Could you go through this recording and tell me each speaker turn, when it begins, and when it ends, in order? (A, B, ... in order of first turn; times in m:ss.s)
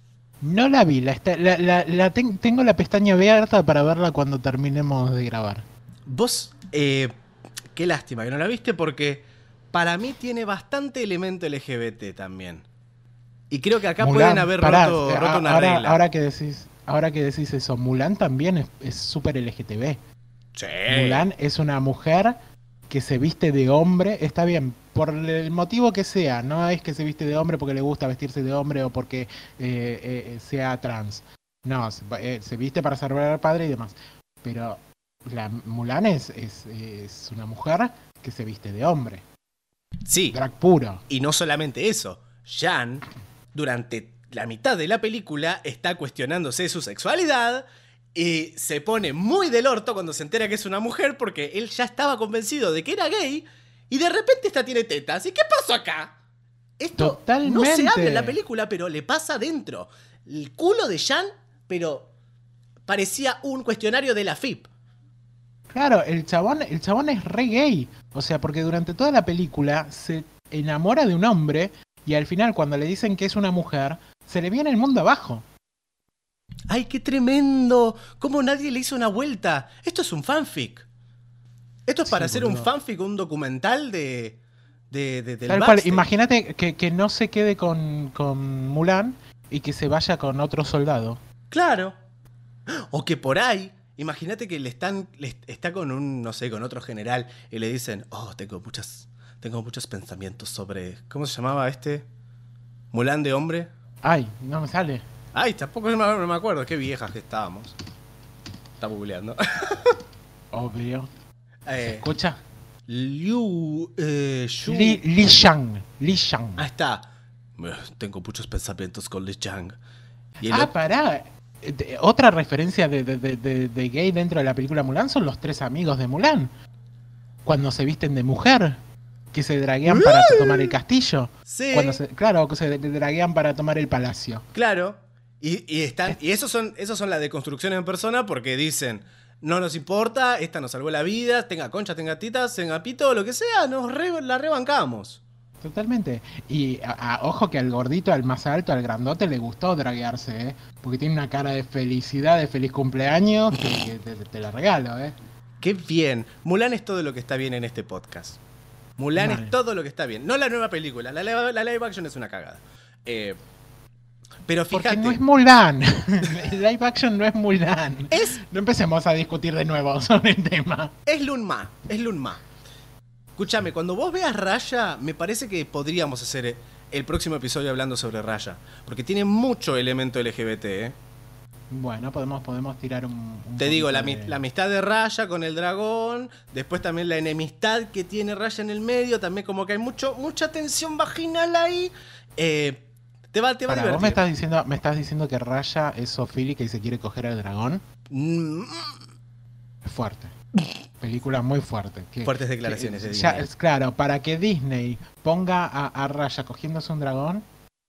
0:00.4-0:05.6 A
0:06.1-0:07.1 B
0:07.7-0:12.6 B
0:13.5-0:16.0 B
0:14.0-0:20.0 A
0:20.6-0:21.3 B
0:20.9-0:22.4 A
0:22.9-0:39.2 A
0:40.0-0:40.4 B
0:40.3-0:41.0 A
0:41.1-0:56.1 B
0:56.8-1:02.1 B
0:57.0-0:58.4 A
1:02.8-1:04.6 B
1:05.7-1:15.4 A
1:16.7-1:20.8 B
1:21.9-1:24.4 B
1:22.0-1:22.7 A
1:24.9-1:26.0 B
1:25.5-1:31.2 A
1:31.5-1:32.0 B
1:32.7-1:42.0 B
1:42.9-1:43.7 B
1:44.0-1:45.0 A
1:45.3-1:47.7 B
1:48.8-1:50.0 B
1:50.5-1:51.1 A
1:51.6-1:52.0 B
1:51.8-1:52.4 A
1:52.9-1:55.0 B
1:54.6-1:56.7 A
1:56.6-1:57.0 B
1:57.6-1:59.8 B
2:00.4-2:00.7 B
2:00.4-2:06.5 A
2:07.4-2:08.8 A
2:09.3-2:14.4 A
2:09.9-2:10.7 B
2:11.5-2:12.0 B
2:14.5-2:25.2 B
2:25.6-2:35.2 A
2:35.6-2:38.4 B
2:39.0-2:43.4 B
2:39.2-2:39.5 A
2:44.5-2:45.2 B
2:44.7-2:50.9 A
2:48.1-2:48.4 B
2:51.0-2:52.4 B
2:53.4-3:01.0 B
3:01.7-3:04.4 A
3:03.6-3:14.2 B
3:13.7-3:17.8 A
3:18.1-3:19.0 B
3:19.8-3:20.3 A
3:21.0-3:27.4 A
3:22.2-3:23.4 B